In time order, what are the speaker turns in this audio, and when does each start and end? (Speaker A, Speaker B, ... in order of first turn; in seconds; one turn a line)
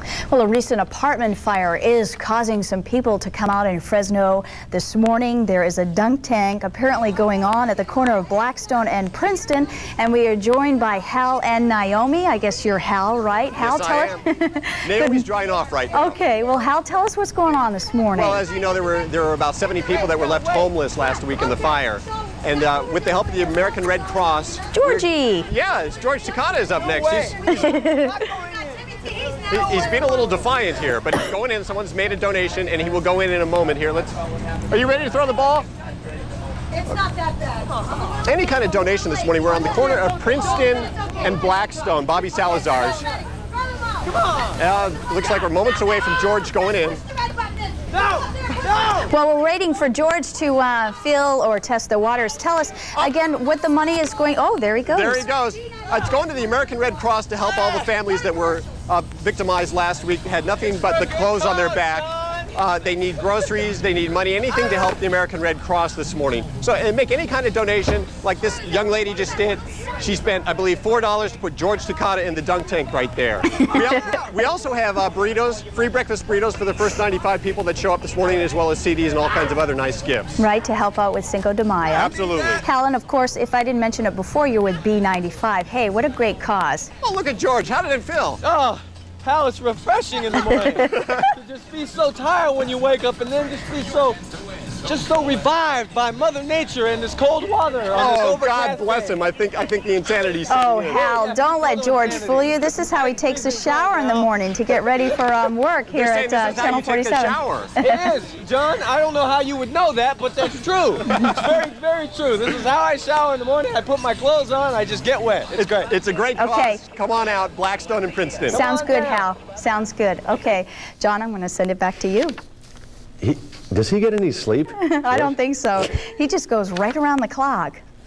Speaker A: 0.3-15.2
Speaker B: 13.6-14.2
Speaker B: 14.8-16.2
Speaker A: 15.9-18.4
Speaker B: 18.1-27.5
Speaker A: 24.7-25.5
Speaker C: 26.8-28.9
Speaker A: 27.5-28.2
Speaker B: 29.5-34.1
Speaker B: 34.7-35.6
Speaker B: 38.2-43.1
Speaker B: 44.6-47.0
Speaker C: 48.0-49.0
Speaker A: 49.0-55.3
Speaker B: 54.9-80.4
Speaker C: 61.2-62.0
Speaker A: 80.4-86.9
Speaker B: 81.9-82.6
Speaker B: 87.0-88.4
Speaker C: 88.4-94.2
Speaker B: 90.8-91.2
Speaker C: 94.8-99.2
Speaker B: 97.9-101.0
Speaker A: 100.5-108.0
Speaker C: 100.9-104.3
Speaker B: 105.9-107.7
Speaker C: 107.8-115.9
Speaker B: 115.5-118.6
Speaker A: 116.4-116.8
Speaker C: 118.5-119.2
Speaker A: 118.5-122.3
Speaker D: 123.2-125.3
Speaker A: 124.8-127.8